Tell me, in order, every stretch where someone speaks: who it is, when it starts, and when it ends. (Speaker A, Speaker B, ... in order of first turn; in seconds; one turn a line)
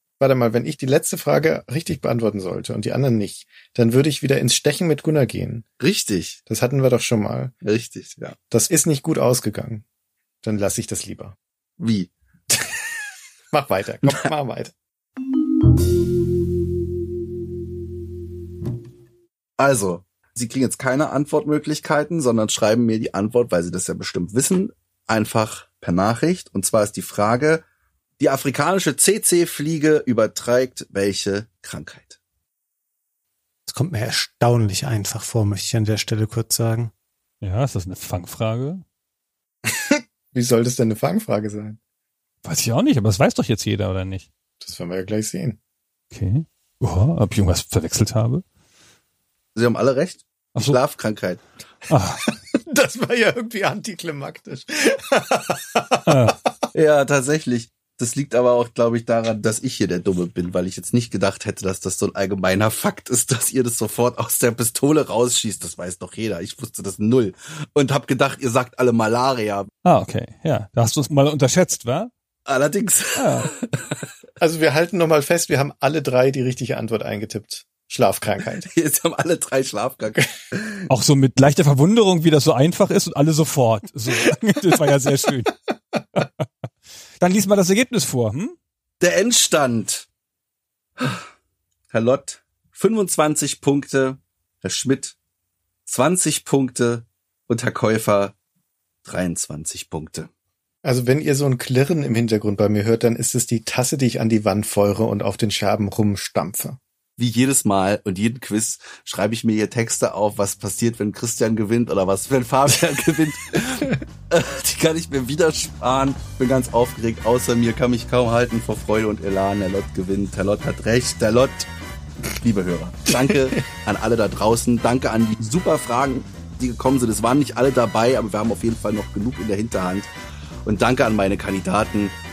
Speaker A: 0.2-5.7
Speaker B: 5.8-6.4
Speaker A: 6.5-7.5
Speaker B: 7.6-8.3
Speaker A: 8.5-9.8
Speaker A: 10.4-11.3
Speaker B: 11.8-12.1
Speaker A: 13.5-14.7
Speaker B: 19.6-27.6
Speaker B: 28.2-32.2
Speaker C: 33.7-36.9
Speaker D: 37.4-38.8
Speaker A: 39.7-41.8
Speaker D: 42.4-44.3
Speaker A: 44.6-45.6
Speaker D: 46.1-48.4
Speaker B: 49.5-51.4
Speaker D: 51.9-52.3
Speaker A: 52.5-56.3
Speaker D: 56.1-56.4
Speaker B: 56.7-69.7
Speaker D: 69.8-72.1
Speaker B: 72.5-74.0
Speaker D: 73.2-73.5
Speaker A: 74.4-78.7
Speaker B: 78.7-80.7
Speaker D: 80.9-85.5
Speaker D: 87.2-88.5
Speaker B: 89.0-90.1
Speaker B: 91.0-91.2
Speaker B: 91.9-95.2
Speaker B: 95.8-98.3
Speaker B: 99.0-100.3
Speaker A: 100.8-106.8
Speaker B: 107.2-121.7
Speaker B: 122.3-130.1
Speaker B: 130.6-132.2